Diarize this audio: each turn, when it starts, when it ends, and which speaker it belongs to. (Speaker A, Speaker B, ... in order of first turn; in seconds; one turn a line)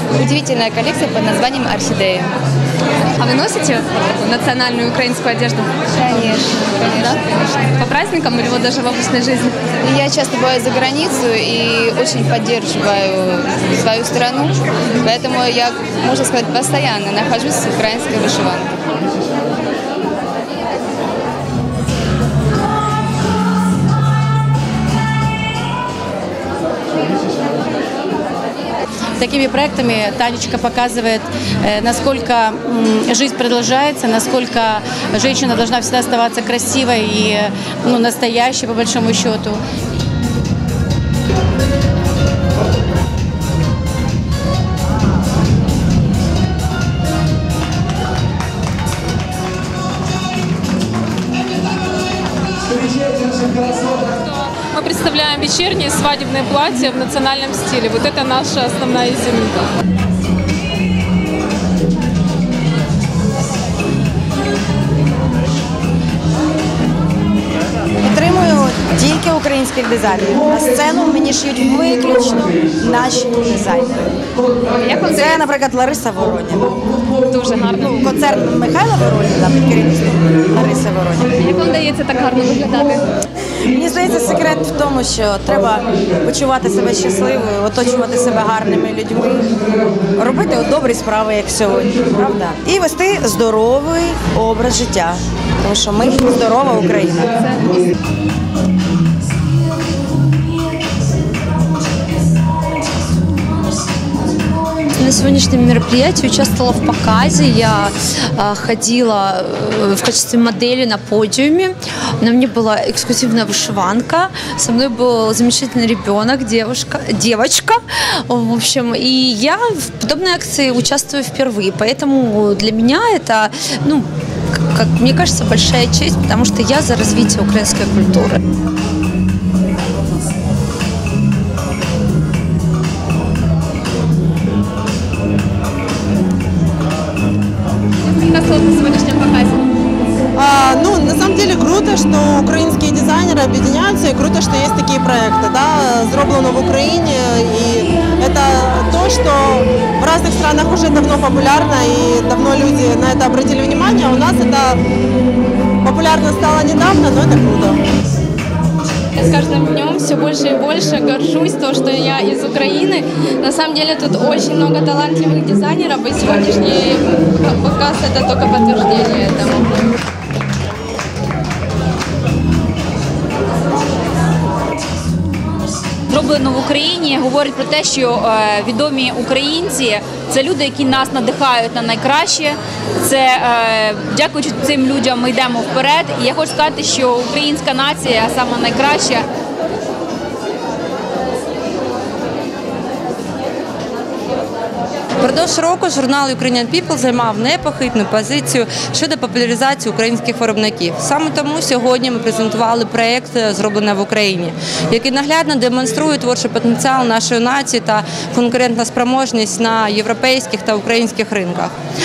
Speaker A: 0.2-2.3
Speaker B: 3.2-5.8
Speaker A: 6.0-7.0
Speaker B: 6.9-9.7
Speaker A: 9.9-18.8
Speaker C: 29.2-39.6
Speaker D: 53.5-59.7
Speaker E: 68.0-74.1
Speaker B: 74.8-75.4
Speaker E: 74.9-76.7
Speaker B: 77.2-78.1
Speaker E: 77.7-81.4
Speaker B: 81.4-83.1
Speaker E: 83.6-97.7
Speaker F: 104.9-128.4
Speaker G: 138.3-139.6
Speaker H: 140.4-154.8
Speaker H: 155.8-157.8
Speaker G: 159.2-169.7
Speaker I: 176.1-189.3
Speaker J: 195.2-211.7